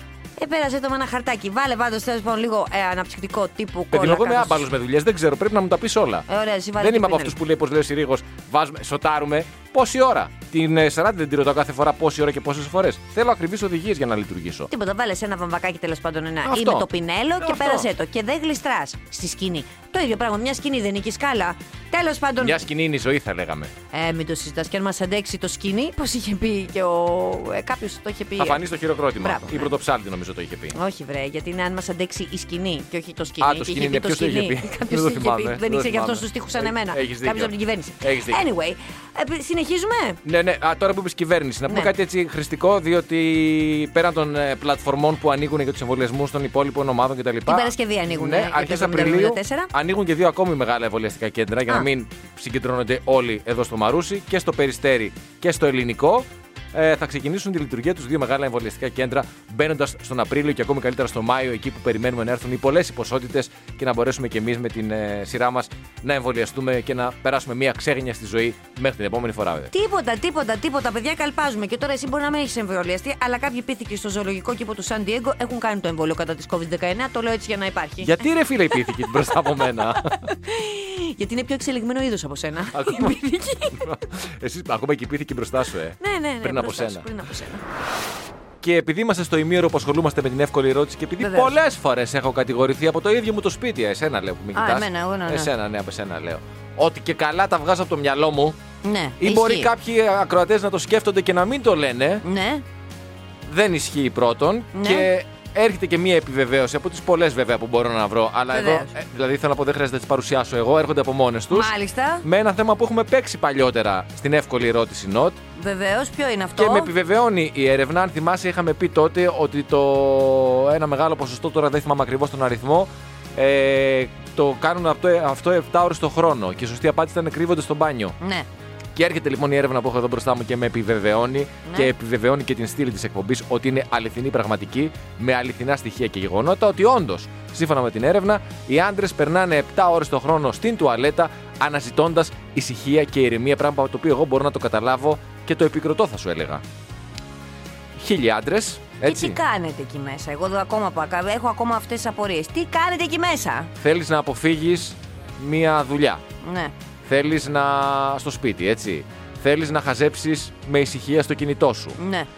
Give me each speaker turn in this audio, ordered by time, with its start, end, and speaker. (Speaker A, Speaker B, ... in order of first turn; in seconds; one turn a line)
Speaker A: 0.4-4.7
Speaker B: 3.9-6.3
Speaker A: 6.3-7.4
Speaker B: 6.8-14.7
Speaker A: 14.7-22.6
Speaker B: 16.4-16.9
Speaker B: 17.4-17.9
Speaker B: 22.4-23.7
Speaker A: 23.9-28.6
Speaker B: 28.4-30.7
Speaker A: 29.2-29.7
Speaker A: 30.7-40.2
Speaker B: 33.4-38.4
Speaker B: 40.2-69.7
Speaker A: 47.5-49.7
Speaker A: 69.7-78.2
Speaker B: 78.0-80.2
Speaker A: 78.8-83.9
Speaker B: 82.7-87.1
Speaker A: 86.0-87.6
Speaker B: 88.6-98.6
Speaker A: 91.2-91.5
Speaker A: 94.5-95.5
Speaker A: 98.8-99.7
Speaker B: 99.2-102.2
Speaker A: 102.2-102.6
Speaker B: 103.5-111.7
Speaker A: 104.7-105.1
Speaker A: 108.5-108.9
Speaker A: 111.5-112.2
Speaker B: 112.2-115.4
Speaker A: 115.5-116.9
Speaker B: 116.6-128.2
Speaker A: 128.2-128.5
Speaker B: 128.9-146.6
Speaker A: 131.7-131.9
Speaker B: 148.0-149.4
Speaker A: 149.0-153.7
Speaker B: 153.8-156.2
Speaker A: 156.4-156.7
Speaker B: 157.1-162.0
Speaker A: 162.0-162.3